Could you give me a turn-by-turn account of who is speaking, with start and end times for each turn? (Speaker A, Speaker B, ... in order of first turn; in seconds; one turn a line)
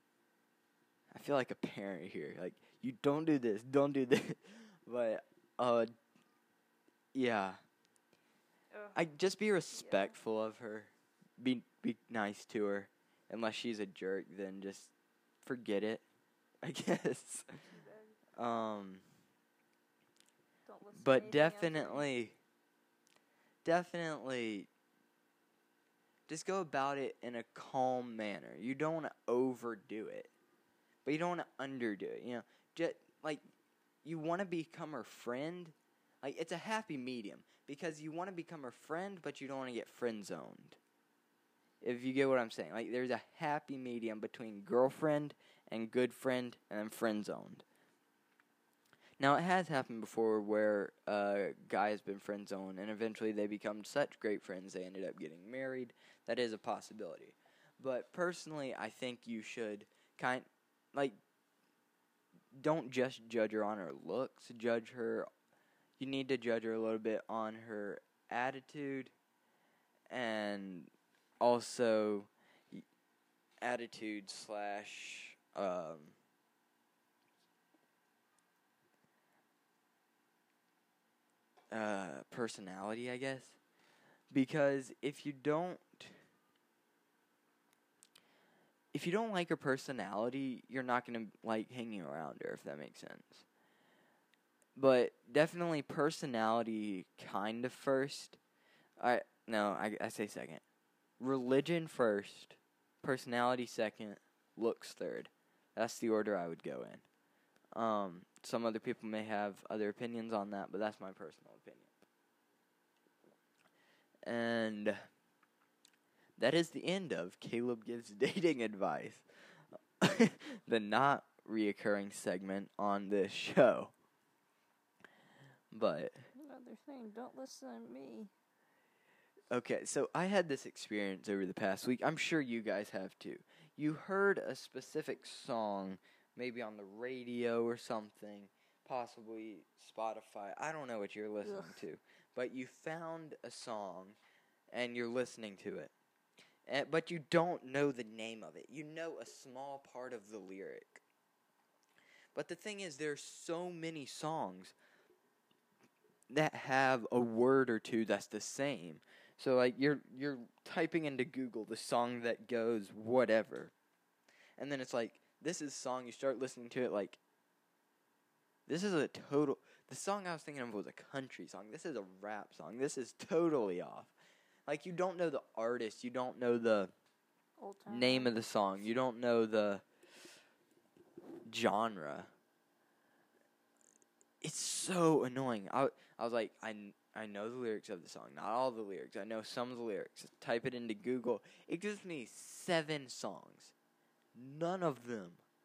Speaker A: 1.1-5.9
Speaker A: 7.1-7.6
Speaker B: 8.7-9.0
Speaker A: 8.9-14.9
Speaker B: 9.7-10.2
Speaker A: 15.4-16.0
Speaker A: 16.6-17.5
Speaker B: 17.7-18.2
Speaker A: 18.4-19.0
Speaker B: 20.7-22.1
Speaker A: 21.0-22.4
Speaker A: 23.6-24.7
Speaker A: 26.3-30.3
Speaker A: 31.1-33.4
Speaker A: 34.0-40.8
Speaker A: 41.8-47.6
Speaker A: 49.2-61.2
Speaker A: 62.5-65.3
Speaker A: 66.0-69.1
Speaker A: 70.1-72.8
Speaker A: 73.6-76.2
Speaker A: 81.7-83.6
Speaker A: 84.3-86.2
Speaker A: 88.9-93.5
Speaker A: 94.8-98.4
Speaker A: 99.0-100.6
Speaker A: 101.2-107.0
Speaker A: 107.7-112.0
Speaker A: 114.3-115.0
Speaker A: 116.4-119.2
Speaker A: 120.0-123.9
Speaker A: 125.7-126.2
Speaker B: 126.3-128.3
Speaker A: 129.5-144.2
Speaker B: 141.4-141.8
Speaker A: 144.7-145.9
Speaker A: 146.7-151.0
Speaker A: 152.3-154.8
Speaker A: 156.3-163.7
Speaker A: 164.6-167.2
Speaker A: 168.7-174.1
Speaker A: 174.7-176.9
Speaker B: 177.6-178.3
Speaker A: 177.9-179.8
Speaker A: 181.5-182.3
Speaker A: 184.4-193.7
Speaker A: 194.3-195.4